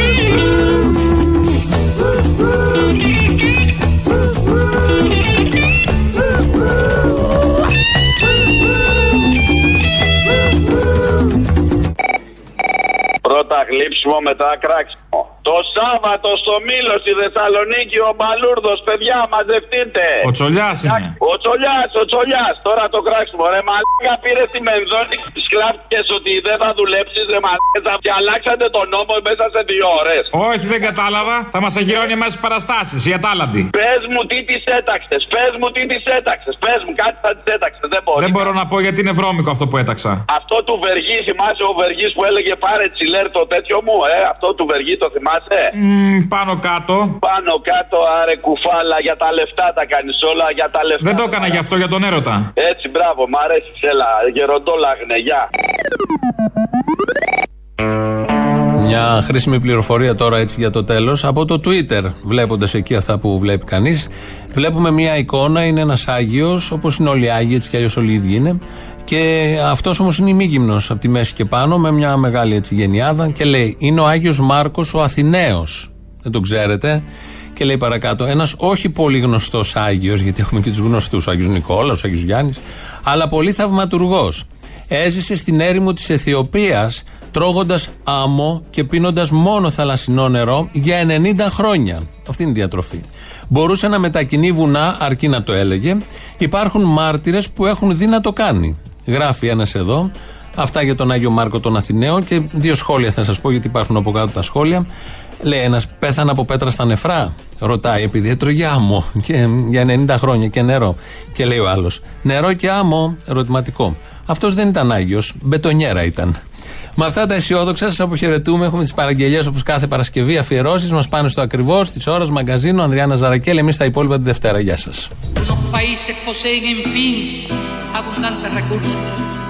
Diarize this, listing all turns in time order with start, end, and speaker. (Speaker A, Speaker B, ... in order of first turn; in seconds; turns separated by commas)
Speaker A: 13.2-20.2, Speaker B: 20.2-21.1, Speaker A: 21.2-30.3, Speaker B: 30.3-33.7, Speaker A: 33.7-38.5, Speaker B: 38.2-40.2, Speaker A: 40.3-45.7, Speaker B: 45.7-47.1, Speaker A: 47.2-51.6, Speaker B: 51.0-52.5, Speaker A: 52.6-55.5, Speaker C: 58.8-77.0, Speaker C: 77.5-104.8, Speaker C: 105.4-116.3, Speaker C: 117.0-125.1, Speaker D: 125.4-129.0